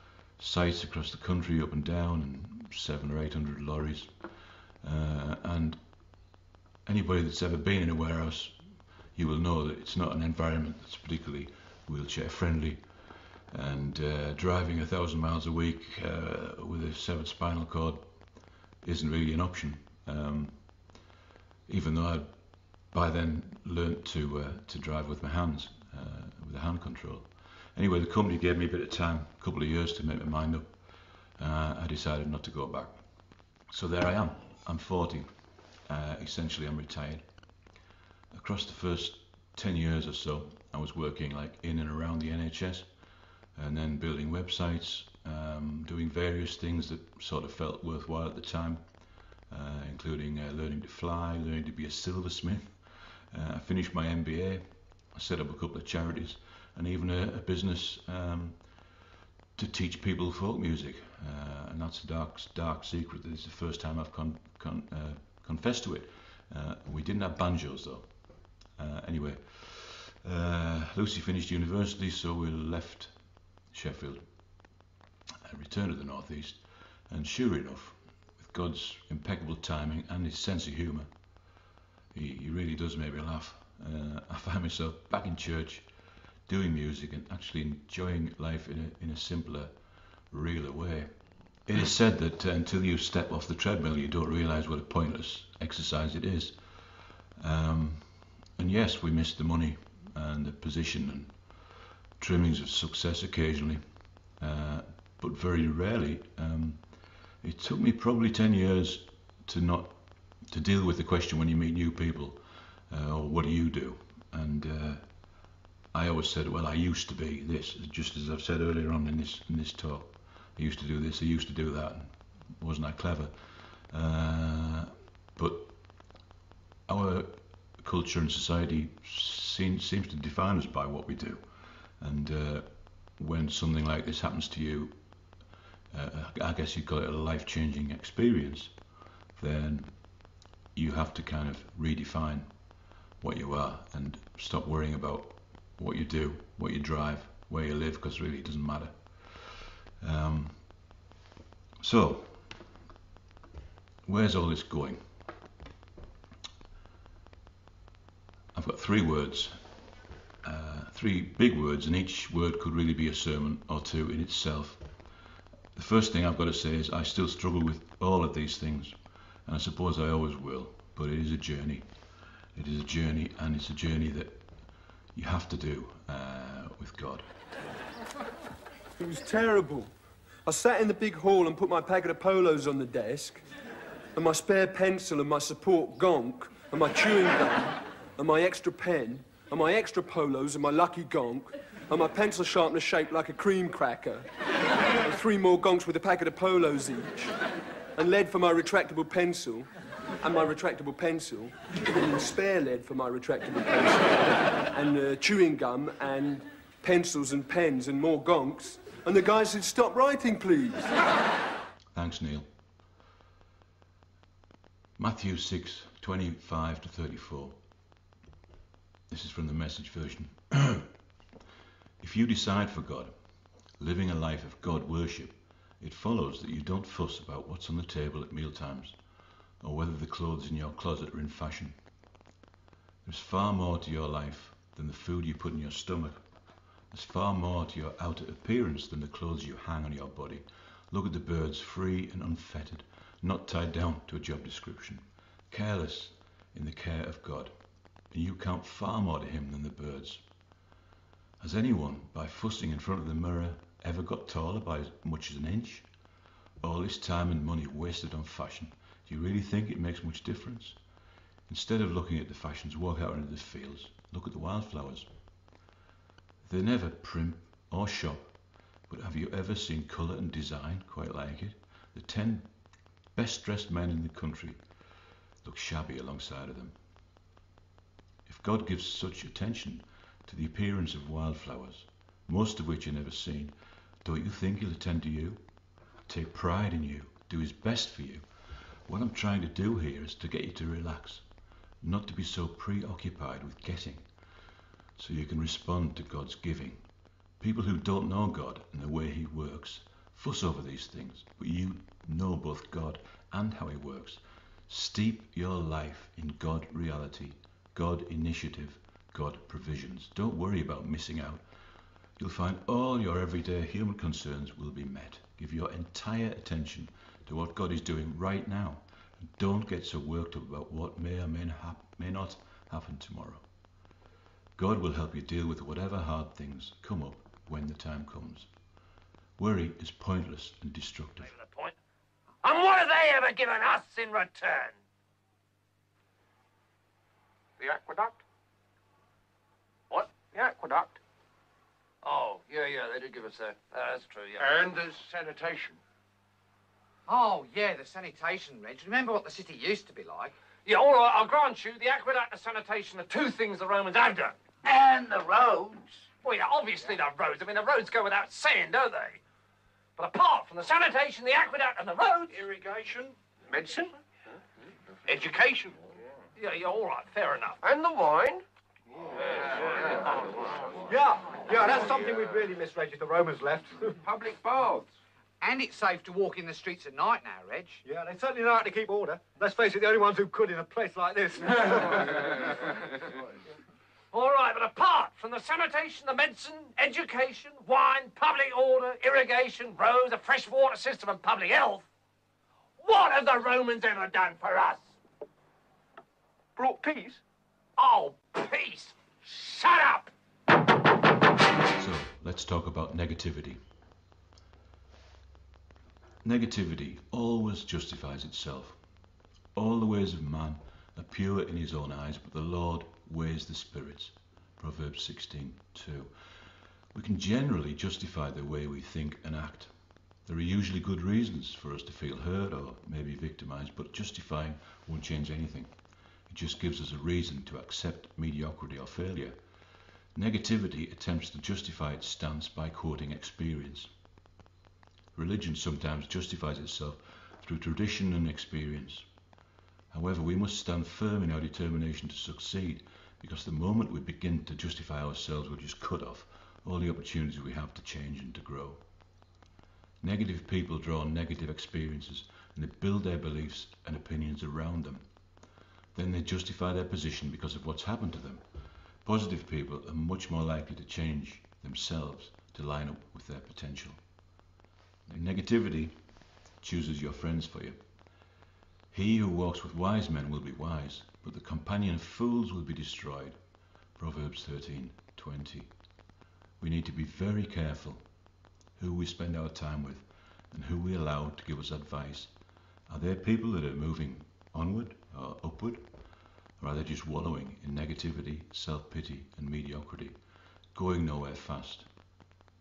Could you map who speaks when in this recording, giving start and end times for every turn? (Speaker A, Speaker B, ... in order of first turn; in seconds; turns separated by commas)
Speaker A: 0.4-5.8, Speaker A: 6.8-8.6, Speaker A: 9.1-12.9, Speaker A: 13.5-18.1, Speaker A: 18.8-20.6, Speaker A: 21.7-22.3, Speaker A: 22.9-30.8, Speaker A: 31.4-33.0, Speaker A: 33.7-35.3, Speaker A: 35.9-37.2, Speaker A: 38.3-42.9, Speaker A: 43.5-48.8, Speaker A: 49.5-52.8, Speaker A: 53.3-58.6, Speaker A: 59.6-68.1, Speaker A: 68.8-73.1, Speaker A: 73.7-74.2, Speaker A: 75.5-81.1, Speaker A: 82.1-85.9, Speaker A: 86.5-89.7, Speaker A: 90.3-101.3, Speaker A: 102.2-103.8, Speaker A: 104.4-106.8, Speaker A: 107.4-115.0, Speaker A: 115.9-125.8, Speaker A: 126.9-134.9, Speaker A: 135.9-138.7, Speaker A: 139.4-140.0, Speaker A: 140.7-142.5, Speaker A: 143.2-150.7, Speaker A: 151.8-152.5, Speaker A: 154.1-155.1, Speaker A: 158.6-159.6, Speaker A: 160.4-164.8, Speaker A: 165.8-168.9, Speaker A: 169.5-171.9, Speaker A: 172.6-174.4, Speaker A: 175.1-177.3, Speaker B: 179.0-179.9, Speaker B: 180.4-183.4, Speaker B: 184.2-194.3, Speaker B: 195.0-197.4, Speaker B: 198.0-211.0, Speaker A: 211.9-212.5, Speaker A: 215.0-217.6, Speaker A: 219.1-220.9, Speaker A: 222.0-223.1, Speaker A: 223.8-229.0, Speaker A: 229.6-231.8, Speaker A: 233.1-236.2, Speaker A: 236.9-247.5, Speaker A: 248.1-250.2, Speaker A: 251.4-255.9, Speaker A: 256.6-260.8, Speaker A: 261.5-265.1, Speaker A: 266.5-268.4, Speaker A: 268.9-272.5, Speaker A: 273.1-274.6, Speaker A: 275.4-276.8, Speaker A: 278.3-285.4, Speaker A: 286.1-288.2, Speaker A: 288.9-291.2, Speaker A: 291.8-294.1, Speaker A: 295.0-296.8, Speaker A: 297.4-311.4, Speaker A: 312.2-323.4, Speaker A: 324.6-328.5, Speaker A: 329.4-331.3, Speaker C: 331.2-331.8, Speaker C: 332.4-334.8, Speaker D: 337.6-338.2, Speaker D: 339.9-341.0, Speaker C: 342.0-344.5, Speaker D: 344.4-345.8, Speaker E: 347.1-350.4, Speaker C: 350.6-354.4, Speaker D: 354.6-355.9, Speaker C: 356.2-359.2, Speaker C: 360.0-362.4, Speaker D: 362.3-363.9, Speaker D: 365.1-365.9, Speaker C: 366.4-367.6, Speaker D: 367.6-368.4, Speaker D: 369.0-370.3, Speaker F: 370.9-374.0, Speaker D: 374.0-374.9, Speaker E: 375.4-377.8, Speaker F: 377.8-382.5, Speaker C: 384.1-391.9, Speaker C: 392.8-394.9, Speaker D: 396.6-397.2, Speaker C: 397.8-400.1, Speaker A: 401.8-403.6, Speaker A: 406.2-408.8, Speaker A: 409.6-416.1, Speaker A: 416.9-419.7, Speaker A: 420.3-425.7, Speaker A: 426.3-429.4, Speaker A: 430.1-433.9, Speaker A: 435.1-439.1, Speaker A: 439.9-448.8, Speaker A: 450.0-455.1, Speaker A: 455.9-458.4, Speaker A: 459.1-464.0, Speaker A: 465.1-465.9, Speaker A: 466.6-467.8, Speaker A: 468.9-473.4, Speaker A: 474.0-475.7, Speaker A: 476.6-478.0, Speaker A: 478.8-482.3, Speaker A: 482.9-485.9, Speaker A: 486.6-490.2, Speaker A: 490.7-491.9